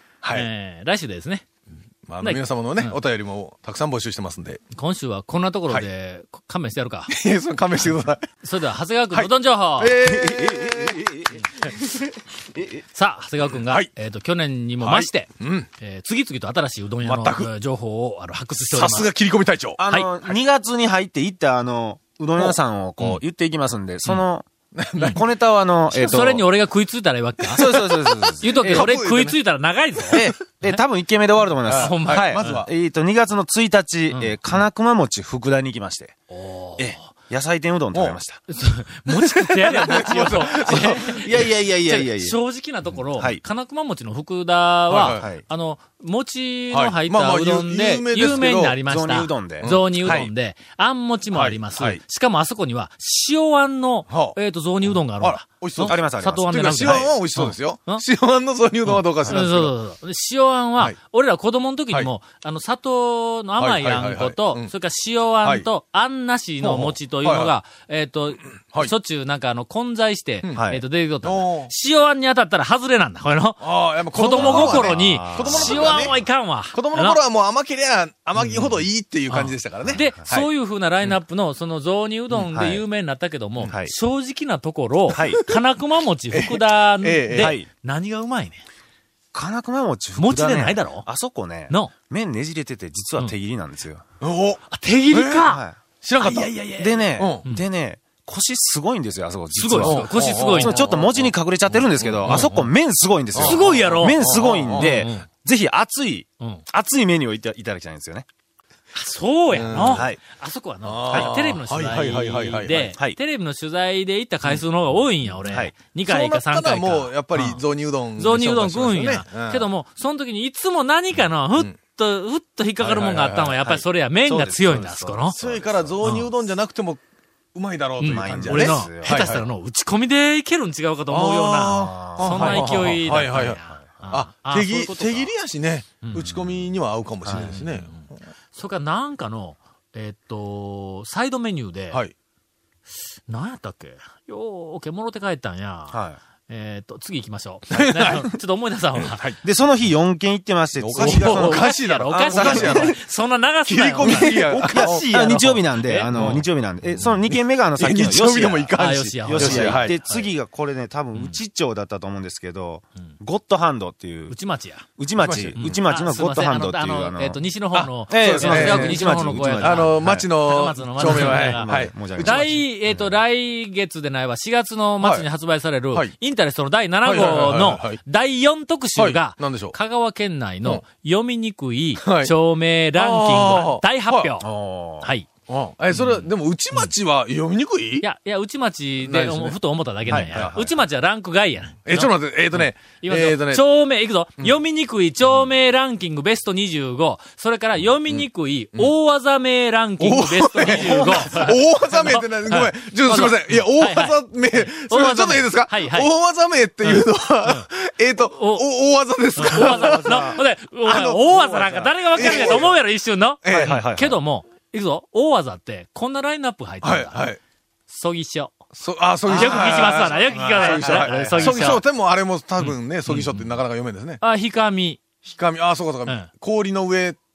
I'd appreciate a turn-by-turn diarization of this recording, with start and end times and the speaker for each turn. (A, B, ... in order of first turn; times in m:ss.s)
0:00.2-0:00.5 A
0:00.3-0:01.4 B
0:02.1-0:04.6 A
0:02.2-0:03.0 B
0:04.7-0:07.1 B
0:07.1-0:08.2 A
0:08.4-0:10.0 B
0:09.1-0:11.0 A
0:10.0-0:12.0 C
0:12.5-0:12.8 C
0:12.9-0:19.1 B
0:13.6-0:13.9 A
0:14.8-0:15.7 A
0:17.0-0:17.5 A
0:18.7-0:19.8 A
0:19.8-0:26.4 C
0:24.7-0:25.2 A
0:25.9-0:27.7 B
0:27.5-0:28.9 C
0:27.7-0:29.4 A
0:28.4-0:30.8 B
0:30.1-0:36.2 C
0:31.7-0:32.7 A
0:31.7-0:32.6 B
0:34.1-0:34.4 B
0:36.3-0:37.1 B
0:36.8-0:38.4 C
0:37.9-0:38.2 A
0:38.5-0:58.0 B
0:39.2-0:41.3 A
0:40.1-0:42.4 C
0:43.2-0:43.4 C
0:44.9-0:45.3 A
0:45.1-0:45.4 C
0:46.7-0:48.8 A
0:48.4-0:50.3 C
0:49.6-0:50.3 A
0:51.3-0:52.0 A
0:54.1-0:54.4 A
0:55.2-0:59.7 A
0:55.8-0:57.1 C
0:58.9-1:17.2 B
1:03.6-1:04.7 A
1:06.6-1:07.5 A
1:10.5-1:10.8 C
1:11.2-1:11.7 A
1:13.6-1:16.1 A
1:14.2-1:16.2 C
1:16.7-1:20.5 A
1:18.4-1:18.7 B
1:19.3-1:28.6 B
1:19.8-1:20.2 C
1:22.3-1:22.8 C
1:23.7-1:23.9 C
1:25.1-1:25.4 C
1:26.3-1:27.5 A
1:27.4-1:27.7 C
1:29.3-1:34.0 C
1:30.2-1:31.1 B
1:34.2-1:35.5 A
1:34.7-1:35.6 B
1:35.4-1:35.8 C
1:36.0-1:36.5 A
1:36.2-1:37.6 B
1:36.8-1:48.3 C
1:37.2-1:37.4 A
1:39.6-1:40.9 B
1:39.8-1:41.2 A
1:42.0-1:42.5 A
1:42.2-1:42.7 B
1:43.3-1:45.1 A
1:43.4-1:45.2 B
1:48.9-1:57.6 B
1:49.5-1:50.1 A
1:49.9-1:50.2 C
1:50.8-1:53.0 A
1:55.4-1:55.7 C
1:56.0-1:59.7 A
1:58.2-2:05.4 B
2:02.8-2:03.6 A
2:03.6-2:06.2 C
2:05.3-2:07.0 A
2:06.0-2:06.3 B
2:07.5-2:09.4 A
2:08.0-2:15.2 B
2:08.1-2:09.4 C
2:11.1-2:18.1 A
2:11.7-2:13.9 C
2:15.0-2:15.3 C
2:17.3-2:22.0 B
2:23.3-2:29.3 B
2:25.9-2:26.2 C
2:27.7-2:28.4 A
2:29.0-2:29.4 A
2:29.4-2:33.0 C
2:30.8-2:33.0 A
2:31.0-2:36.4 B
2:33.7-2:35.1 A
2:34.0-2:44.3 C
2:36.1-2:36.4 A
2:37.8-2:40.0 A
2:38.8-2:40.3 B
2:44.3-2:44.8 B
2:45.0-2:47.4 C
2:45.2-2:45.6 A
2:45.5-3:04.5 B
2:47.7-2:52.5 A
2:48.1-2:50.3 C
2:51.0-2:53.2 C
2:55.0-2:55.2 A
2:57.0-2:58.0 A
2:59.0-2:59.7 A
3:02.0-3:02.3 A
3:02.9-3:04.4 A
3:04.4-3:05.1 C
3:05.0-3:05.3 B
3:05.5-3:08.0 A
3:05.9-3:06.9 B
3:08.0-3:26.1 B
3:09.0-3:09.6 A
3:10.0-3:10.8 C
3:10.1-3:10.5 A
3:11.8-3:13.6 A
3:18.1-3:18.9 A
3:20.0-3:32.8 A
3:26.8-3:27.7 B
3:28.3-3:28.6 B
3:29.4-3:37.3 B
3:29.8-3:30.3 C
3:33.4-3:33.8 A
3:33.5-3:34.2 C
3:36.8-3:37.4 A
3:37.9-3:38.5 B
3:38.7-3:44.2 A
3:39.3-3:41.8 B
3:39.3-3:39.7 C
3:40.6-3:41.8 C
3:42.6-3:43.6 B
3:44.2-3:45.0 B
3:45.2-3:47.2 A